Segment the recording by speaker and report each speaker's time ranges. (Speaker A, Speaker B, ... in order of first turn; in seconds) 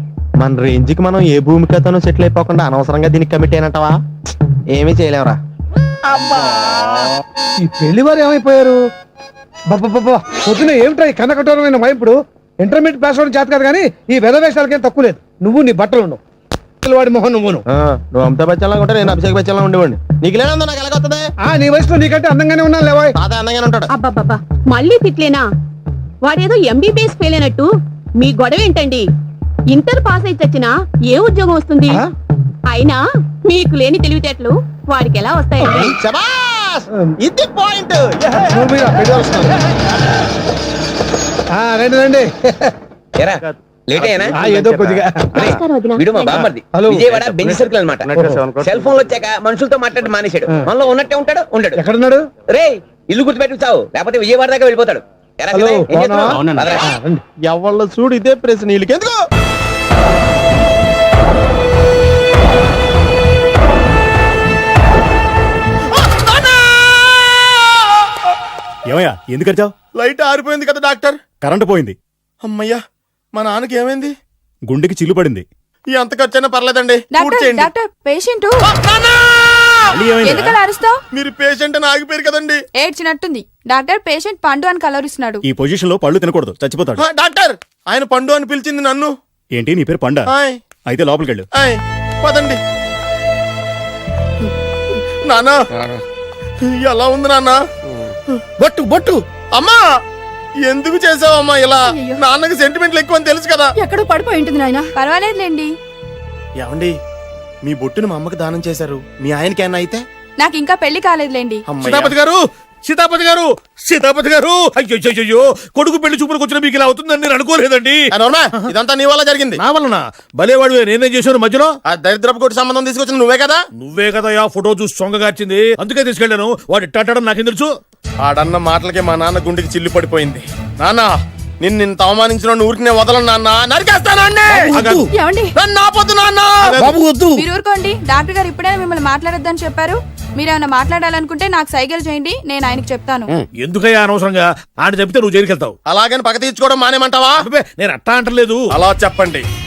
Speaker A: 0.4-3.9, 4.7-5.4, 17.7-21.2, 23.2-23.9, 35.9-38.5, 48.2-48.8, 57.5-59.1, 66.2-66.5, 69.9-71.2, 72.4-72.8, 73.3-74.1, 75.9-77.7, 78.6-79.9, 81.1-82.6, 87.0-89.1, 90.3-90.6, 91.5-92.6, 95.2-95.5, 96.7-97.5, 98.6-99.8, 100.6-103.7, 106.6-106.9, 107.6-110.0, 111.7-112.1, 118.1-119.6, 121.8-123.6, 128.2-131.1, 131.6-135.0, 135.5-136.7, 145.8-147.3, 148.7-149.4
Speaker B: 7.6-8.8, 9.7-16.2, 16.8-17.6, 21.4-23.1, 35.7-35.9, 38.3-39.5, 41.5-42.7, 44.3-45.5, 46.7-47.5, 48.1-48.4, 51.8-52.3, 55.5-57.2
Speaker C: 23.9-25.4, 26.2-27.7, 28.2-29.0, 29.7-31.9, 32.7-35.7, 45.5-46.5
Speaker D: 43.2-51.8, 52.5-56.9
Speaker E: 69.2-69.7, 71.4-71.9, 74.7-75.4, 80.0-80.3, 85.5-87.0, 89.6-90.2, 90.9-91.4, 103.8-104.8
Speaker F: 77.1-78.5, 80.2-81.0, 82.7-85.4, 104.9-105.7, 110.4-111.6, 135.1-135.5, 137.3-143.3
Speaker G: 111.8-118.7, 119.6-121.8, 123.8-127.7, 134.7-135.1, 143.6-145.8, 147.4-148.7